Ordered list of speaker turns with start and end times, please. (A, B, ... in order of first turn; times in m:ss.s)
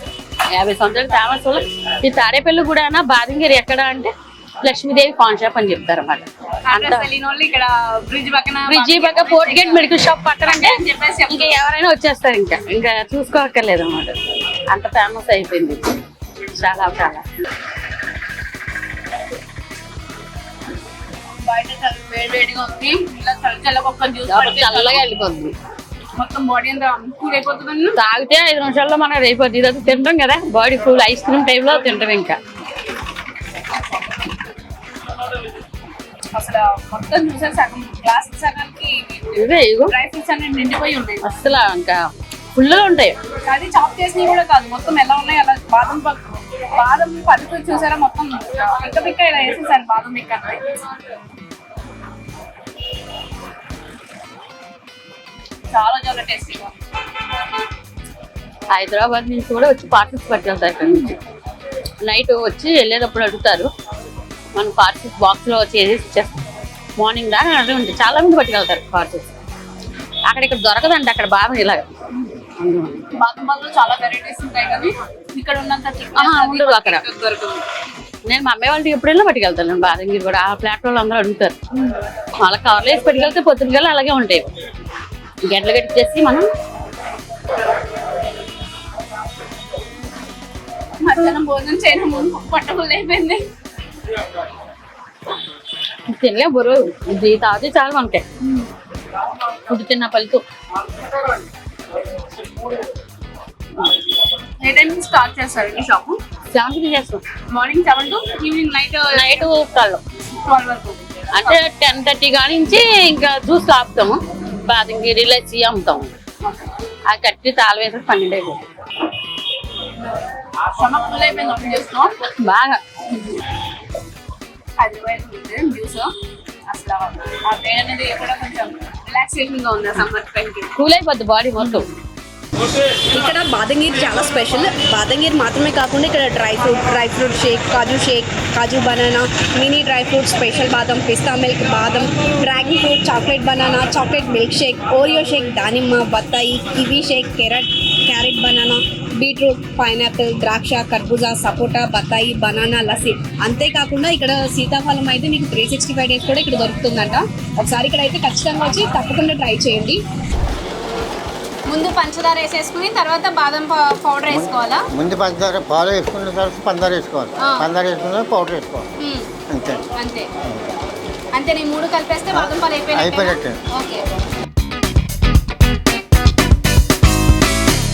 0:00.5-0:07.1 A
0:06.7-0:11.5 B
0:08.7-0:15.9 A
0:16.5-0:17.2 A
0:21.4-0:25.0 B
0:24.2-0:25.6 A
0:26.2-0:28.0 B
0:28.0-0:32.4 A
0:36.3-0:41.3 B
0:39.3-0:39.9 A
0:41.2-0:43.2 A
0:43.3-0:50.8 B
0:55.7-0:56.7 B
0:58.7-1:01.2 A
1:02.0-1:03.7 A
1:04.6-1:06.4 A
1:07.0-1:09.4 A
1:10.3-1:11.9 A
1:12.6-1:13.0 A
1:13.1-1:17.6 B
1:16.2-1:17.0 A
1:18.2-1:21.6 A
1:22.4-1:24.5 A
1:25.4-1:26.5 A
1:31.0-1:33.5 B
1:36.1-1:38.2 A
1:39.7-1:40.4 A
1:44.6-1:46.2 B
1:46.5-1:47.2 A
1:47.5-1:49.6 B
1:49.1-1:50.0 A
1:50.4-1:51.6 B
1:51.3-1:56.1 A
1:57.1-1:58.6 A
2:00.6-2:02.2 B
2:02.4-2:02.8 A
2:04.8-2:06.1 B
2:06.7-2:10.7 B
2:10.8-2:11.9 A
2:12.9-2:40.0 B
2:41.7-2:44.9 B
2:44.3-2:48.9 C
2:47.4-2:47.7 B
2:49.0-2:49.3 B
2:49.5-2:49.8 C
2:49.9-2:50.3 B
2:51.3-2:54.0 B
2:52.3-2:53.6 C